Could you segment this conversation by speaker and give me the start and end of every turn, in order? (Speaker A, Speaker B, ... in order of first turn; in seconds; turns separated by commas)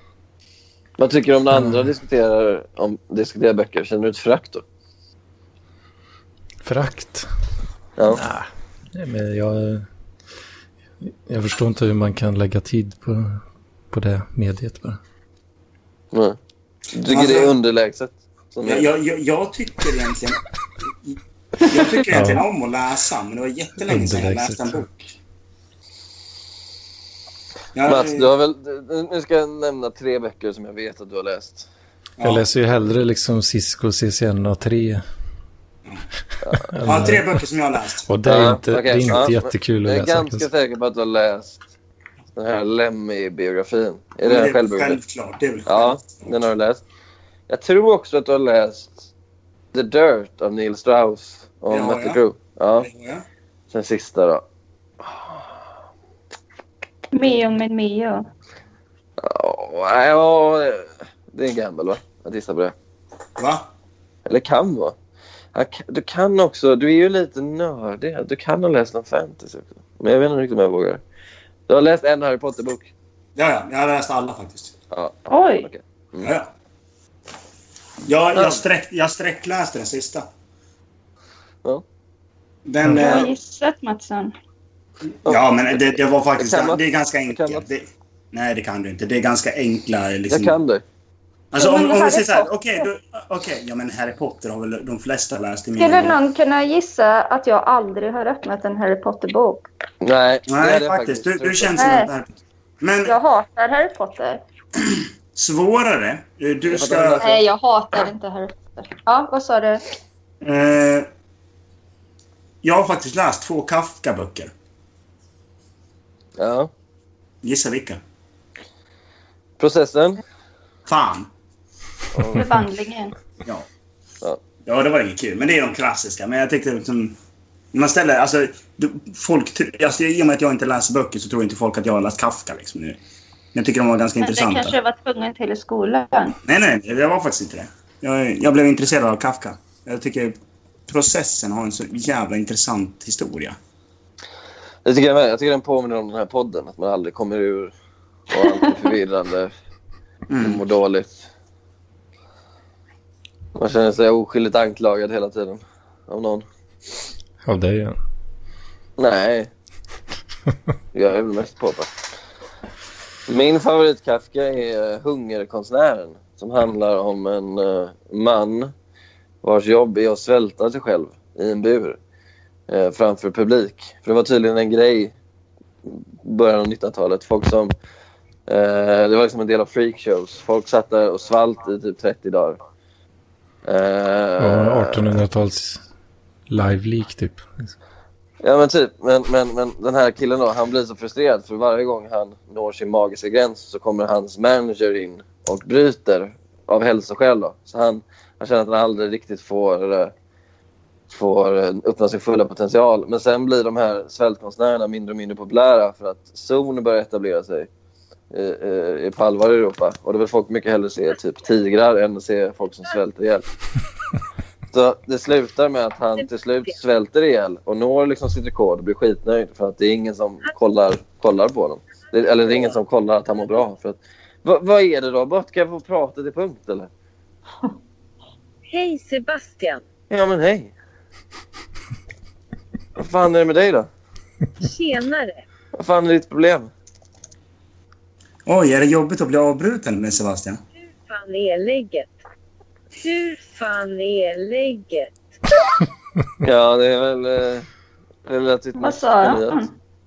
Speaker A: 1.0-4.6, Speaker B: 1.5-1.8, Speaker B: 6.6-7.2, Speaker B: 8.1-9.8, Speaker B: 11.3-13.4, Speaker B: 13.9-15.0, Speaker A: 16.9-18.9, Speaker C: 17.0-17.5, Speaker C: 18.6-20.4, Speaker C: 21.0-24.9, Speaker B: 22.1-22.4, Speaker B: 23.9-25.0, Speaker C: 27.7-28.3, Speaker A: 27.9-31.7, Speaker C: 32.2-32.4, Speaker B: 32.2-35.0, Speaker A: 36.4-36.7, Speaker B: 36.7-37.2, Speaker C: 36.8-38.1, Speaker B: 38.1-40.5, Speaker A: 38.2-41.6, Speaker A: 42.4-45.0, Speaker C: 44.2-46.2, Speaker A: 45.6-46.8, Speaker A: 47.5-49.1, Speaker A: 49.7-52.9, Speaker C: 51.7-52.2, Speaker C: 52.8-53.2, Speaker A: 53.7-54.4, Speaker A: 55.0-55.4, Speaker D: 57.1-58.2, Speaker A: 59.2-62.7, Speaker C: 63.4-63.7, Speaker A: 64.2-64.9, Speaker A: 65.5-71.0, Speaker A: 71.7-72.9, Speaker C: 73.4-74.7, Speaker A: 74.9-76.3, Speaker D: 75.3-75.7, Speaker C: 76.2-76.5, Speaker C: 78.0-80.2, Speaker A: 78.3-78.6, Speaker C: 82.7-83.3, Speaker D: 82.9-84.3, Speaker C: 85.2-90.5, Speaker A: 85.2-85.8, Speaker A: 86.4-87.7, Speaker A: 90.3-90.8, Speaker C: 91.5-96.2, Speaker D: 91.5-92.8, Speaker D: 95.8-99.6, Speaker A: 100.0-101.8, Speaker C: 100.5-102.3, Speaker D: 101.8-102.1, Speaker C: 102.8-103.1, Speaker D: 103.0-104.4, Speaker C: 105.3-107.2, Speaker A: 106.7-107.4, Speaker D: 107.2-109.8, Speaker C: 110.4-111.1, Speaker C: 112.6-114.5, Speaker A: 116.4-116.7, Speaker C: 117.4-118.0, Speaker A: 119.6-120.2, Speaker C: 120.9-121.3, Speaker A: 122.1-122.4, Speaker D: 122.3-123.1, Speaker C: 124.6-127.2, Speaker C: 127.7-133.0, Speaker C: 133.5-134.8, Speaker D: 134.2-136.4, Speaker C: 136.4-140.3, Speaker C: 140.9-143.6, Speaker A: 144.8-147.7, Speaker A: 148.3-149.5, Speaker C: 150.3-150.6, Speaker A: 150.4-151.2, Speaker A: 153.6-156.4, Speaker B: 157.4-157.9, Speaker A: 159.0-159.5, Speaker A: 160.9-161.9, Speaker A: 163.3-168.7, Speaker A: 169.4-172.0, Speaker A: 172.7-175.1, Speaker A: 175.8-177.7, Speaker A: 178.5-182.6, Speaker A: 183.6-185.1, Speaker B: 184.4-185.8, Speaker B: 186.5-187.7, Speaker A: 188.4-200.1, Speaker A: 201.1-207.7, Speaker A: 208.3-213.4, Speaker A: 214.7-226.9, Speaker E: 216.2-216.7, Speaker E: 228.7-229.8, Speaker A: 230.1-230.7, Speaker A: 233.0-233.9, Speaker E: 234.6-235.4, Speaker A: 235.7-236.7, Speaker C: 238.4-240.6, Speaker E: 240.8-242.1, Speaker E: 243.0-245.1, Speaker A: 246.4-247.7, Speaker A: 248.2-249.6, Speaker D: 248.8-249.7